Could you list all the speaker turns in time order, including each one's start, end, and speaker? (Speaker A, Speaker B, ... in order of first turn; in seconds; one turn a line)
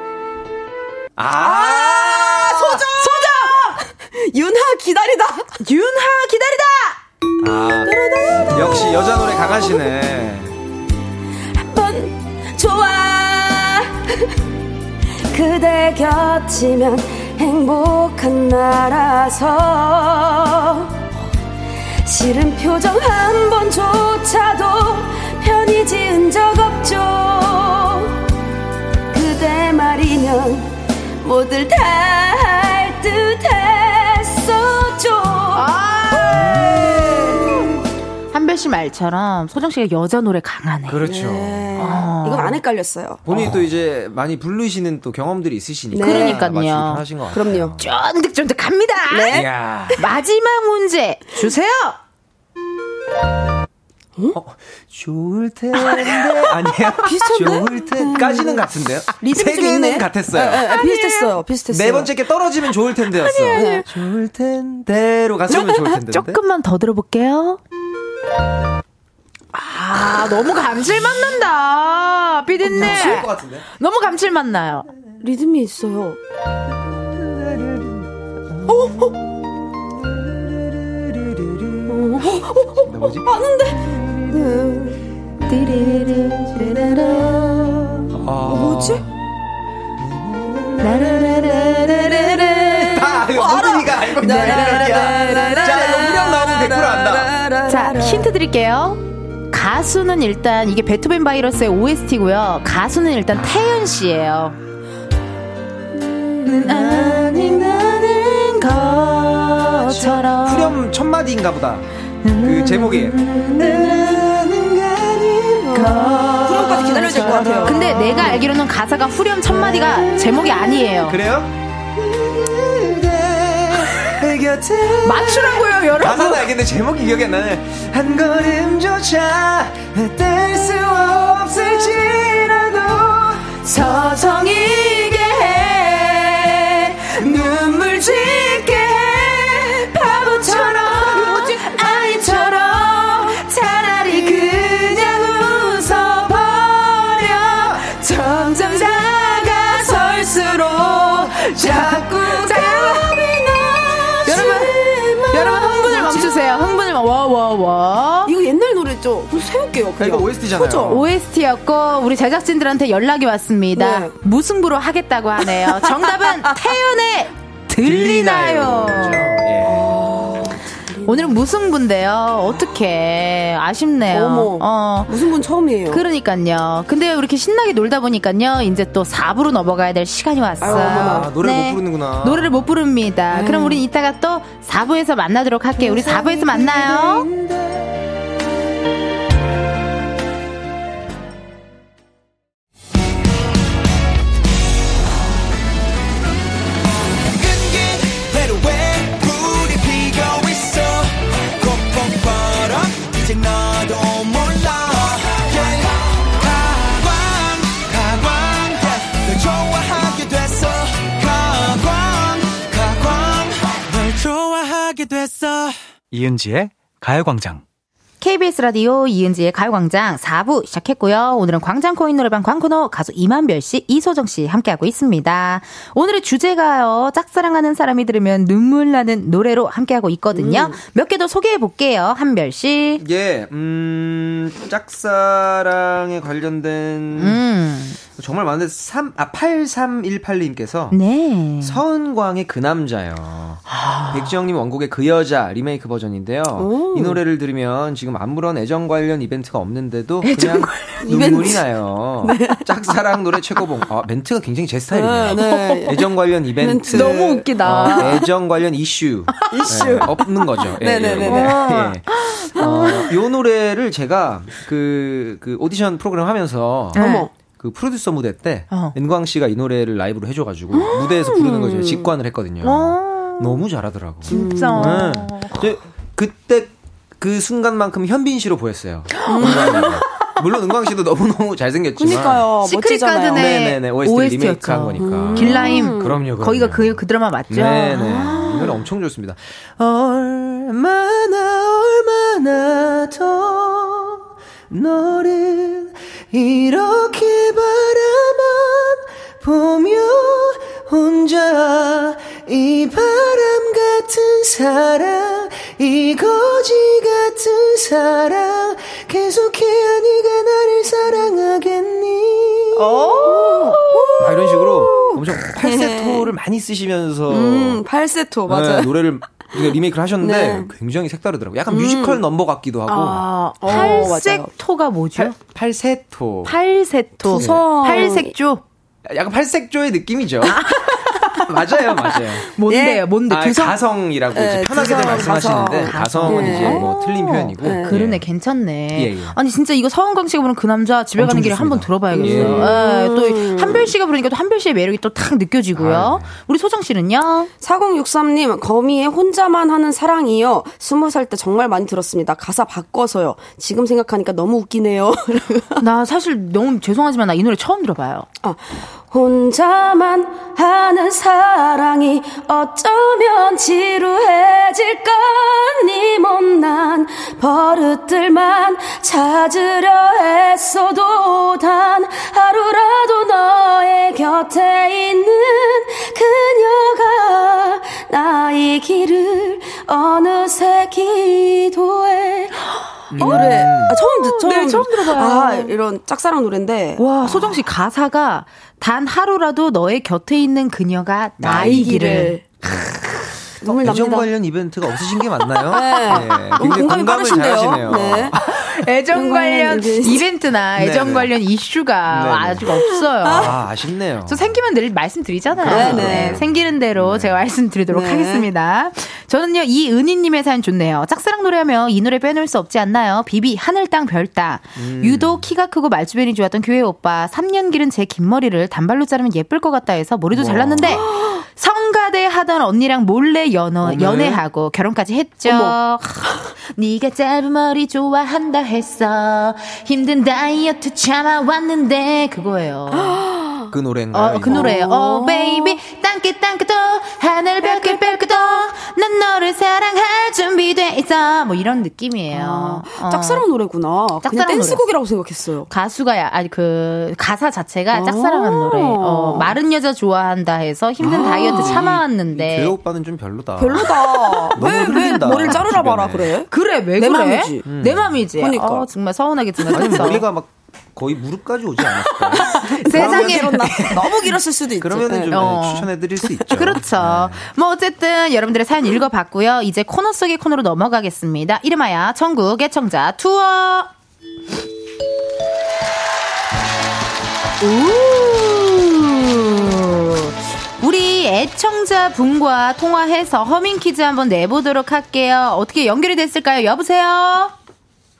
Speaker A: 1.2-2.8
Speaker B: 1.3-5.6
Speaker C: 2.8-3.8
Speaker C: 5.6-7.0
Speaker A: 7.4-7.9
Speaker B: 7.8-9.8
Speaker A: 8.5-10.5
Speaker B: 11.6-14.3
Speaker B: 15.3-21.0
Speaker B: 22.0-28.2
Speaker B: 29.1-35.7
Speaker C: 35.5-37.1
Speaker A: 36.3-37.5
Speaker C: 38.3-41.1
Speaker A: 40.9-42.1
Speaker B: 41.1-43.5
Speaker C: 41.8-42.6
Speaker A: 43.2-47.8
Speaker B: 45.9-46.5
Speaker C: 46.0-47.1
Speaker B: 47.3-47.8
Speaker C: 47.8-52.0
Speaker B: 49.1-49.5
Speaker A: 49.3-50.1
Speaker A: 54.3-60.9
Speaker B: 55.8-56.3
Speaker B: 57.1-62.2
Speaker C: 60.7-61.4
Speaker A: 61.7-66.4
Speaker C: 63.0-63.9
Speaker B: 63.5-63.9
Speaker C: 65.5-67.6
Speaker C: 69.5-74.9
Speaker A: 72.6-73.7
Speaker B: 75.2-76.2
Speaker A: 77.2-78.1
Speaker A: 78.6-79.1
Speaker B: 78.7-79.1
Speaker A: 80.5-85.0
Speaker B: 81.9-83.9
Speaker C: 85.5-87.4
Speaker A: 86.6-89.2
Speaker B: 88.4-89.1
Speaker A: 90.0-97.4
Speaker C: 90.8-92.9
Speaker B: 92.3-98.3
Speaker C: 94.2-95.8
Speaker C: 97.7-104.6
Speaker C: 106.5-110.8
Speaker A: 106.5-118.5
Speaker C: 112.2-113.6
Speaker B: 113.6-114.2
Speaker B: 115.7-118.4
Speaker C: 116.2-121.2
Speaker A: 119.5-134.2
Speaker C: 125.0-126.5
Speaker C: 133.6-138.8
Speaker A: 137.2-142.8
Speaker C: 139.9-146.3
Speaker A: 144.1-154.7
Speaker C: 147.8-150.6
Speaker B: 149.3-151.8
Speaker C: 151.6-153.1
Speaker B: 152.5-156.8
Speaker C: 154.3-154.8
Speaker C: 155.3-158.3
Speaker B: 158.2-161.0
Speaker A: 160.0-161.1
Speaker C: 160.8-169.3
Speaker B: 163.8-164.1
Speaker B: 165.6-166.1
Speaker A: 167.8-170.1
Speaker B: 169.6-171.4
Speaker C: 171.1-175.2
Speaker B: 174.1-176.0
Speaker C: 175.9-187.3
Speaker B: 180.6-181.8
Speaker A: 180.6-182.7
Speaker B: 183.3-183.8
Speaker A: 185.8-188.0
Speaker D: 197.3-217.6
Speaker C: 218.2-233.0
Speaker B: 230.3-230.8
Speaker A: 233.0-237.4
Speaker C: 237.2-238.0
Speaker A: 238.0-241.0
Speaker C: 240.9-241.8
Speaker A: 241.6-282.6
Speaker C: 243.7-244.4
Speaker B: 246.6-247.2
Speaker C: 250.2-251.2
Speaker B: 251.0-253.0
Speaker B: 254.9-258.3
Speaker C: 255.3-255.9
Speaker C: 256.9-258.2
Speaker B: 259.4-261.7
Speaker C: 261.2-263.1
Speaker B: 262.6-263.1
Speaker B: 266.9-267.3
Speaker C: 266.9-267.3
Speaker C: 268.7-269.0
Speaker B: 270.7-272.1
Speaker C: 272.6-273.6
Speaker C: 274.3-275.6
Speaker B: 274.3-275.1
Speaker B: 279.2-280.0
Speaker C: 279.3-280.1
Speaker B: 282.0-283.7
Speaker C: 282.6-288.8
Speaker A: 283.3-313.1
Speaker B: 285.0-286.2
Speaker C: 312.8-314.0
Speaker B: 313.2-316.3
Speaker A: 314.2-317.9
Speaker B: 317.3-320.7
Speaker A: 318.5-324.1
Speaker B: 321.7-322.2
Speaker C: 322.9-325.4
Speaker B: 323.6-324.5
Speaker A: 325.1-326.6
Speaker C: 326.4-328.6
Speaker B: 327.2-328.3
Speaker A: 327.3-327.9
Speaker A: 329.1-330.6
Speaker C: 330.5-331.4
Speaker A: 331.5-332.5
Speaker C: 332.5-333.8
Speaker B: 332.7-333.1
Speaker A: 333.3-338.3
Speaker B: 334.3-336.9
Speaker C: 335.0-347.5
Speaker B: 337.6-338.0
Speaker A: 338.9-339.4
Speaker A: 341.2-342.8
Speaker B: 342.1-343.9
Speaker A: 345.7-346.4
Speaker B: 347.6-355.8
Speaker C: 355.8-358.3
Speaker B: 358.4-382.6
Speaker A: 383.1-384.0
Speaker B: 383.2-387.4
Speaker C: 383.2-385.7
Speaker C: 387.0-393.3
Speaker A: 391.4-392.3
Speaker B: 391.5-392.5
Speaker B: 393.6-394.4
Speaker A: 393.6-398.4
Speaker B: 395.5-398.4
Speaker C: 396.1-396.8
Speaker C: 398.3-403.6
Speaker B: 399.1-400.3
Speaker A: 400.8-401.3
Speaker A: 402.1-402.7
Speaker B: 402.9-403.5
Speaker A: 403.3-404.4
Speaker C: 404.3-433.2
Speaker A: 405.5-407.4
Speaker B: 405.7-406.4
Speaker B: 407.9-408.5
Speaker A: 414.8-415.5
Speaker A: 420.3-421.1
Speaker B: 420.9-421.4
Speaker A: 423.8-424.4
Speaker B: 425.4-425.8
Speaker B: 432.9-433.7
Speaker A: 433.7-434.8
Speaker C: 434.1-443.5
Speaker B: 434.4-435.8
Speaker B: 437.6-438.3
Speaker B: 442.3-445.7
Speaker C: 444.2-444.9
Speaker C: 445.7-452.8
Speaker B: 447.9-449.6
Speaker A: 451.0-456.4
Speaker B: 451.1-451.9
Speaker B: 453.6-457.7
Speaker C: 454.6-455.7
Speaker C: 456.5-460.3
Speaker A: 457.6-458.3
Speaker B: 458.3-458.9
Speaker A: 459.7-467.5
Speaker B: 459.8-460.1
Speaker B: 462.1-465.5
Speaker C: 462.7-463.9
Speaker C: 465.3-473.9
Speaker C: 477.6-487.5